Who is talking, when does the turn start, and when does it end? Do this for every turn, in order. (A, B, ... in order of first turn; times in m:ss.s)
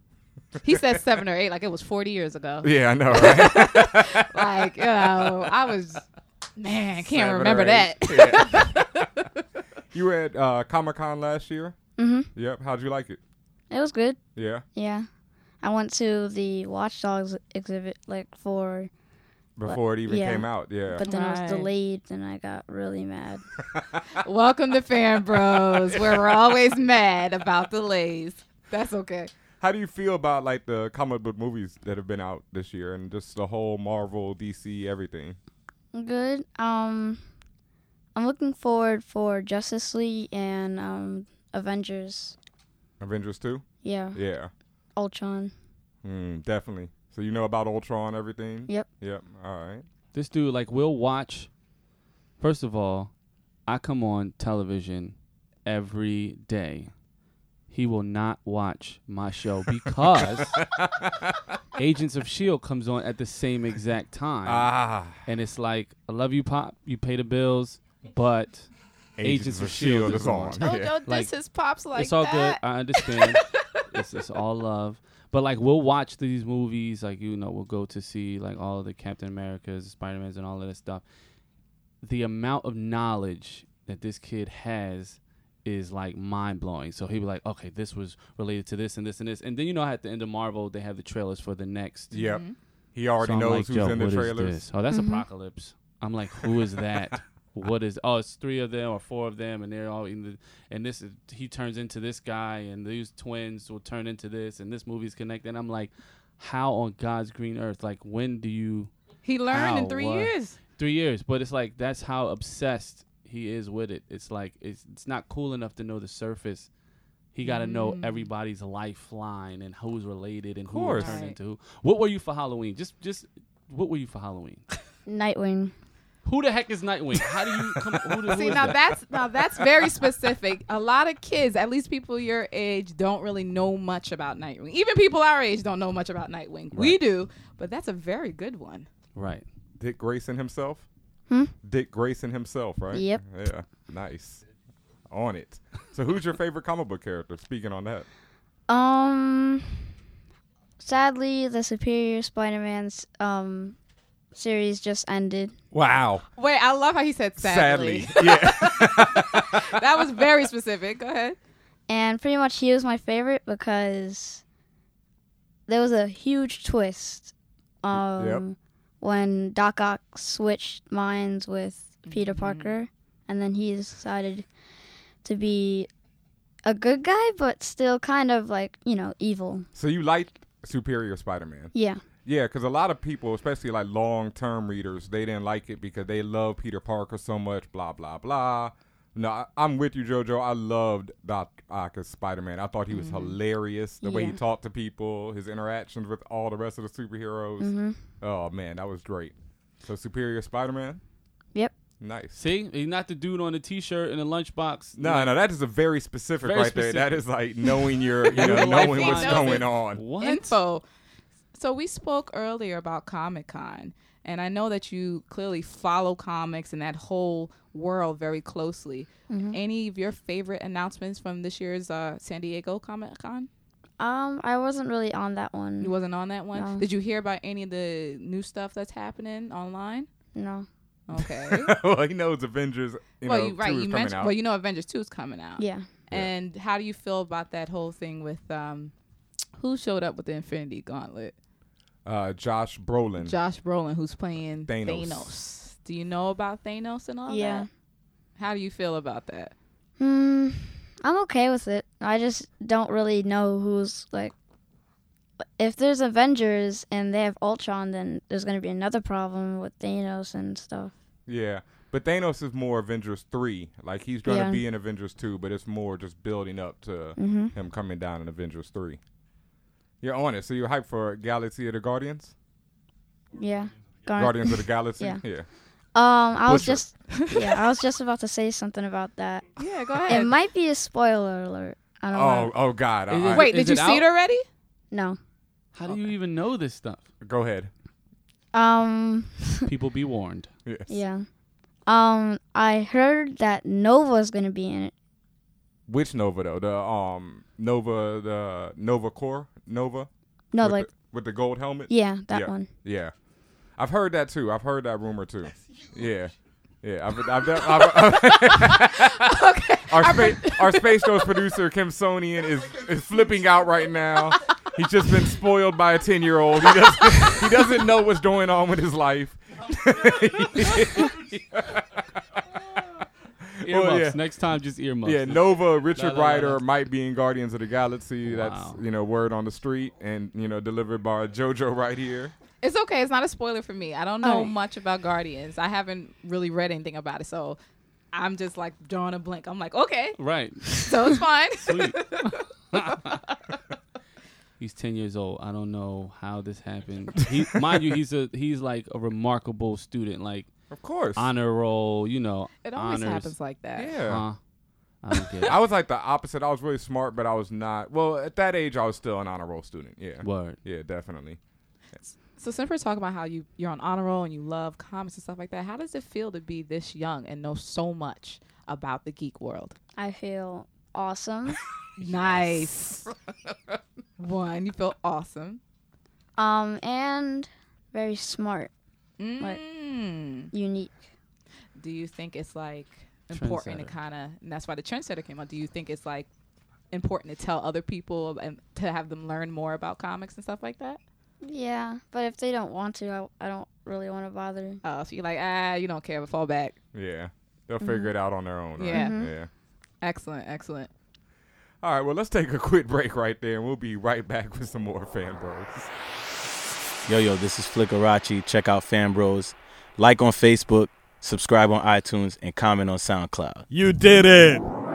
0:00.6-0:06.0 A
0:00.7-0:00.9 B
0:02.6-0:05.4 B
0:06.6-0:09.0 A
0:07.0-0:09.0 B
0:09.9-0:11.8 B
0:12.0-0:12.3 C
0:12.4-0:13.2 B
0:13.7-0:14.2 C
0:14.4-0:14.6 B
0:14.7-0:15.1 C
0:15.6-0:18.9 C
0:19.6-0:21.0 B
0:19.6-0:23.4 C
0:21.0-0:21.7 A
0:23.7-0:24.0 B
0:24.2-0:29.3 A
0:25.7-0:26.4 B
0:29.6-0:35.4 B
0:35.9-0:37.2 C
0:38.1-0:42.4 C
0:43.0-0:44.5 B
0:43.8-0:44.2 C
0:45.0-0:45.5 C
0:46.0-0:49.8 B
0:50.1-0:51.5 D
0:52.4-0:53.1 D
0:53.7-0:55.1 D
0:55.6-0:56.9 D
0:57.7-1:00.6 D
1:00.4-1:01.4 B
1:01.8-1:04.7 D
1:04.4-1:05.3 B
1:05.2-1:11.3 D
1:09.2-1:10.9 B
1:10.6-1:13.4 A
1:11.9-1:21.0 D
1:22.0-1:32.1 D
1:32.1-1:32.6 A
1:32.1-1:34.6 B
1:33.2-1:48.9 D
1:34.9-1:35.2 C
1:49.2-1:50.6 A
1:49.5-1:56.7 D
1:57.3-2:04.6 D
1:57.4-1:58.3 A
2:00.7-2:01.2 B
2:01.0-2:01.4 A
2:05.1-2:05.7 C
2:06.2-2:08.8 D
2:08.3-2:18.9 A
2:08.5-2:08.8 B
2:16.7-2:17.0 D
2:19.1-2:19.4 D
2:19.8-2:20.9 B
2:21.3-2:21.5 C
2:21.6-2:24.4 B
2:22.9-2:23.2 C
2:25.1-2:28.1 B
2:28.7-2:29.9 C
2:30.8-2:33.8 C
2:34.3-2:35.6 C
2:35.7-2:36.2 B
2:36.4-2:41.4 A
2:37.4-2:39.7 B
2:41.9-2:44.4 C
2:45.7-2:54.4 C
2:48.2-2:48.4 B
2:52.1-2:52.7 A
2:55.2-2:55.9 C
2:56.6-2:59.7 C
2:59.7-3:01.7 B
3:01.7-3:02.0 C
3:02.2-3:21.0 B
3:12.9-3:13.4 A
3:14.0-3:14.4 C
3:17.6-3:18.0 C
3:22.0-3:22.4 B
3:22.4-3:25.3 D
3:25.0-3:30.0 B
3:26.4-3:30.6 D
3:28.2-3:30.8 A
3:31.6-3:43.5 A
3:39.3-3:39.6 C
3:44.0-3:45.9 C
3:45.8-3:50.1 A
3:46.5-3:46.9 C
3:50.4-3:50.7 C
3:51.1-3:51.7 A
3:51.2-3:54.3 B
3:53.2-3:58.9 A
3:55.6-3:55.9 C
3:59.6-4:01.4 A
4:02.0-4:03.4 B
4:03.2-4:07.7 A
4:04.6-4:05.4 B
4:07.3-4:07.7 C
4:08.4-4:09.5 A
4:10.0-4:14.3 C
4:15.6-4:20.9 C
4:21.3-4:29.0 B
4:24.2-4:24.6 C
4:27.2-4:27.5 C
4:30.0-4:32.3 B
4:33.3-4:35.2 C
4:34.2-4:35.5 B
4:35.9-4:39.5 C
4:36.4-4:36.8 B
4:39.6-4:40.3 A
4:40.0-4:42.5 C
4:42.1-4:43.5 B
4:43.1-4:44.1 D
4:43.3-4:44.4 A
4:44.9-4:45.2 C
4:45.7-4:47.0 D
4:47.2-4:47.7 B
4:48.5-4:49.7 C
4:49.6-4:50.5 D
4:50.6-4:51.0 B
4:50.9-4:51.3 C
4:51.9-4:54.9 C
4:55.9-5:03.1 B
5:00.5-5:00.9 C
5:01.9-5:02.7 C
5:03.8-5:09.2 B
5:07.6-5:11.4 A
5:09.9-5:22.0 B
5:23.5-5:24.2 B
5:23.6-5:26.6 D
5:25.0-5:32.3 B
5:28.2-5:28.8 D
5:32.6-5:37.6 A
5:34.2-5:34.5 C
5:38.1-5:40.2 A
5:40.2-5:43.2 D
5:40.7-5:43.3 A
5:44.6-5:50.5 D
5:50.7-5:51.3 B
5:51.2-5:53.4 D
5:52.6-5:54.0 A
5:53.8-5:54.2 B
5:54.0-5:54.4 D
5:55.0-5:55.6 D
5:55.4-6:01.4 B
6:00.2-6:00.6 D
6:02.4-6:09.8 A
6:10.0-6:11.6 C
6:12.0-6:13.1 A
6:14.2-6:15.6 A
6:16.4-6:18.7 C
6:19.2-6:20.5 A
6:20.5-6:21.0 C
6:21.8-6:26.3 A
6:23.3-6:23.9 D
6:26.9-6:31.0 A
6:31.4-6:34.8 C
6:34.8-6:36.8 A
6:36.9-6:39.5 B
6:37.8-6:38.1 C
6:38.8-6:39.2 A
6:38.9-6:39.3 C
6:40.0-6:40.9 A
6:41.8-6:45.9 B
6:47.1-6:53.6 E